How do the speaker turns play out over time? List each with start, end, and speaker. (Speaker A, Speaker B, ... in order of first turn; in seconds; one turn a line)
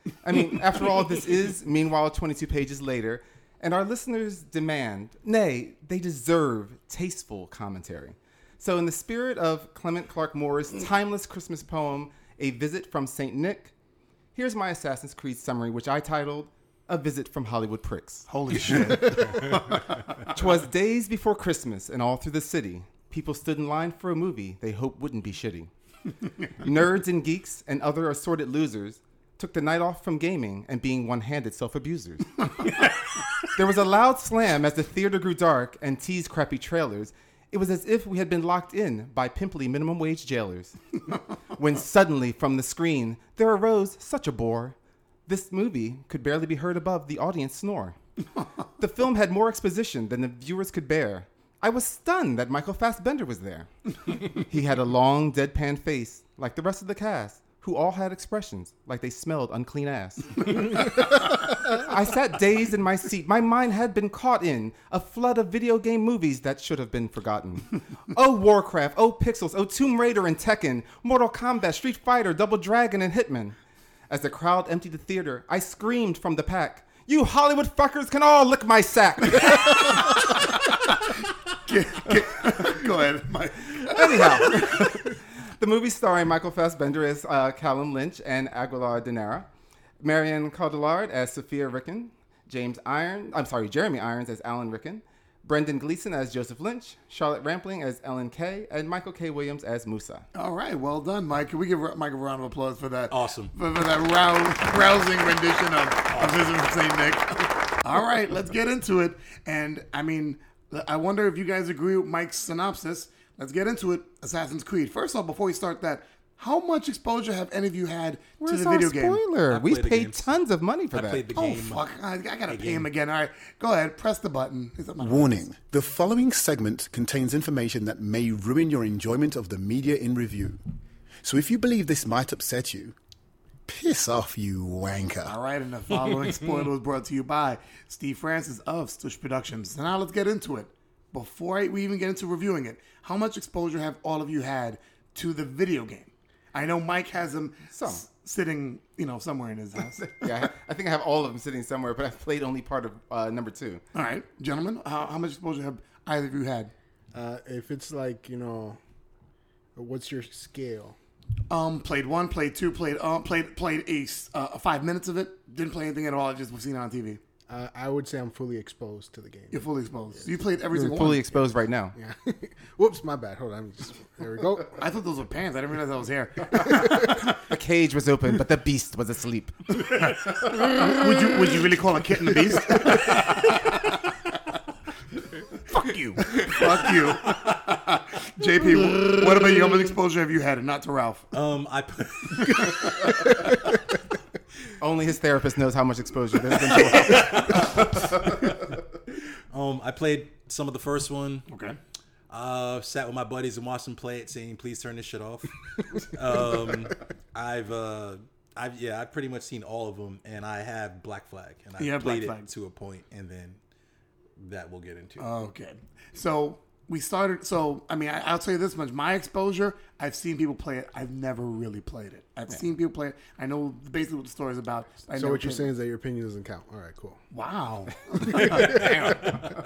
Speaker A: 0.2-13.7
Speaker A: 14.3-19.3
Speaker B: 18.3-20.3
Speaker A: 20.3-25.7
Speaker A: 26.6-32.7
Speaker A: 33.4-40.8
Speaker A: 41.5-44.8
Speaker A: 45.3-48.0
Speaker A: 48.8-73.5
Speaker A: 74.1-80.5
Speaker B: 81.6-84.9
Speaker A: 83.8-89.5
Speaker A: 90.0-100.2
Speaker B: 100.3-119.2
Speaker C: 103.1-103.5
Speaker C: 106.1-106.5
Speaker A: 118.4-121.3
Speaker C: 119.5-120.3
Speaker C: 120.9-121.8
Speaker B: 121.3-125.3
Speaker C: 122.5-122.9
Speaker D: 125.0-130.6
Speaker D: 131.2-132.9
Speaker D: 133.7-135.3
Speaker B: 135.2-150.3
Speaker A: 147.7-148.0
Speaker A: 150.0-153.8
Speaker B: 153.9-156.7
Speaker E: 157.1-158.8
Speaker E: 159.8-160.9
Speaker B: 161.5-167.2
Speaker E: 167.5-169.6
Speaker B: 169.5-171.3
Speaker A: 170.7-171.9
Speaker E: 171.9-174.8
Speaker B: 174.8-177.3
Speaker A: 177.4-179.8
Speaker B: 179.8-183.7
Speaker B: 185.7-191.2
Speaker C: 191.3-193.1
Speaker B: 192.4-192.9
Speaker A: 194.8-198.4
Speaker C: 196.7-198.6
Speaker C: 199.5-201.5
Speaker B: 201.5-201.8
Speaker C: 202.3-213.6
Speaker B: 211.8-212.4
Speaker C: 214.4-215.3
Speaker B: 215.2-225.7
Speaker E: 225.2-227.2
Speaker B: 227.3-229.1
Speaker A: 228.1-229.5